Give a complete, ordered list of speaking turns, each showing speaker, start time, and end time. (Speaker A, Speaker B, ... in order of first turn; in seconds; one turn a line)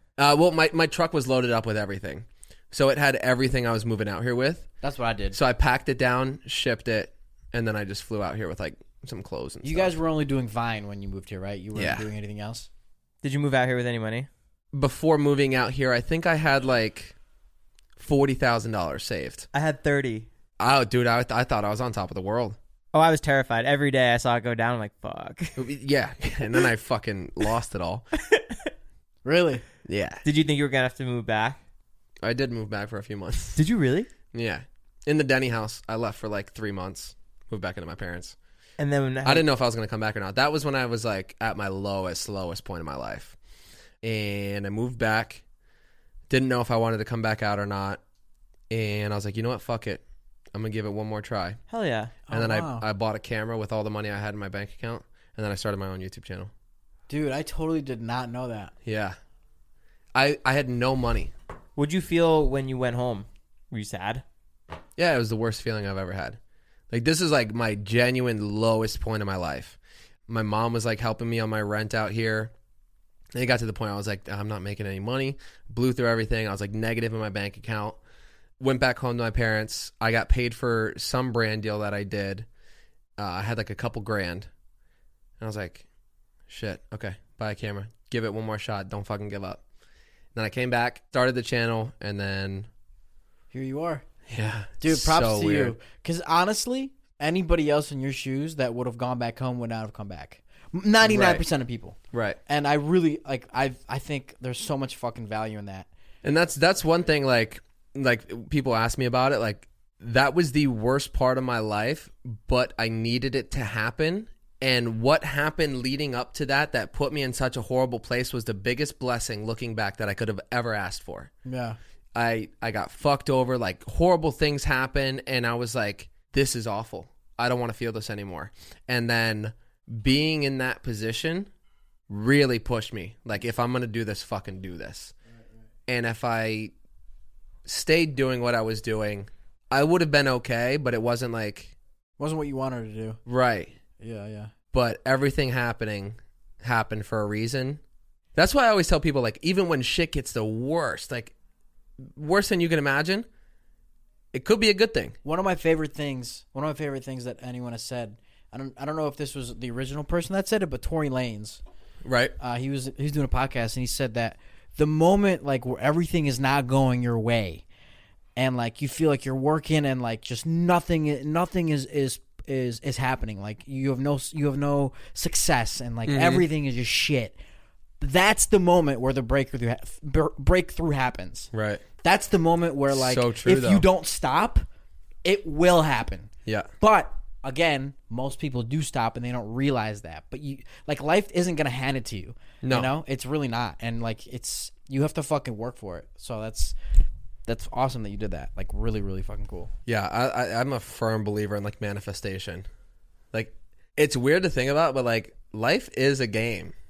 Speaker A: 0.2-4.7
Speaker B: 4.8-5.4
Speaker A: 5.3-9.9
Speaker B: 9.6-12.7
Speaker A: 11.8-12.1
Speaker C: 13.2-14.3
Speaker A: 14.7-17.1
Speaker A: 18.0-19.5
Speaker C: 19.5-20.3
Speaker A: 20.6-22.6
Speaker C: 22.9-25.6
Speaker A: 25.6-28.1
Speaker C: 28.2-28.6
Speaker B: 29.2-29.6
Speaker A: 29.9-30.2
Speaker C: 30.2-31.6
Speaker A: 32.2-33.6
Speaker C: 33.6-34.1
Speaker A: 34.3-38.4
Speaker C: 38.8-39.5
Speaker A: 39.2-43.4
Speaker A: 44.0-45.4
Speaker A: 46.3-48.0
Speaker A: 48.7-50.0
Speaker A: 50.5-51.6
Speaker C: 51.7-52.1
Speaker B: 52.3-52.9
Speaker A: 52.3-56.5
Speaker B: 57.1-58.7
Speaker A: 58.9-59.2
Speaker A: 60.1-61.3
Speaker C: 61.8-64.2
Speaker A: 65.0-66.4
Speaker A: 66.9-69.8
Speaker A: 70.3-72.5
Speaker A: 73.3-78.0
Speaker A: 78.6-82.5
Speaker A: 83.2-84.5
Speaker A: 85.4-85.8
Speaker A: 86.5-89.6
Speaker A: 90.3-92.7
Speaker B: 93.5-94.0
Speaker A: 94.3-95.8
Speaker B: 94.8-102.0
Speaker A: 101.0-101.5
Speaker A: 102.1-102.4
Speaker B: 102.5-105.9
Speaker A: 106.2-121.3
Speaker B: 121.5-121.8
Speaker A: 122.2-131.5
Speaker A: 132.1-135.1
Speaker A: 135.9-136.7
Speaker A: 137.7-141.8
Speaker B: 142.2-143.2
Speaker A: 143.3-143.8
Speaker B: 144.0-144.5
Speaker A: 144.7-147.8
Speaker A: 148.3-151.3
Speaker A: 152.0-153.3
Speaker A: 154.3-155.2
Speaker B: 155.2-161.6
Speaker A: 162.0-162.3
Speaker B: 162.4-167.6
Speaker B: 168.4-177.4
Speaker A: 176.1-176.5
Speaker B: 178.0-181.5
Speaker A: 181.5-181.8
Speaker B: 182.0-184.7
Speaker A: 182.9-183.9
Speaker B: 185.2-196.8
Speaker A: 192.6-192.9
Speaker B: 197.5-199.7
Speaker A: 199.9-202.7
Speaker A: 203.3-206.7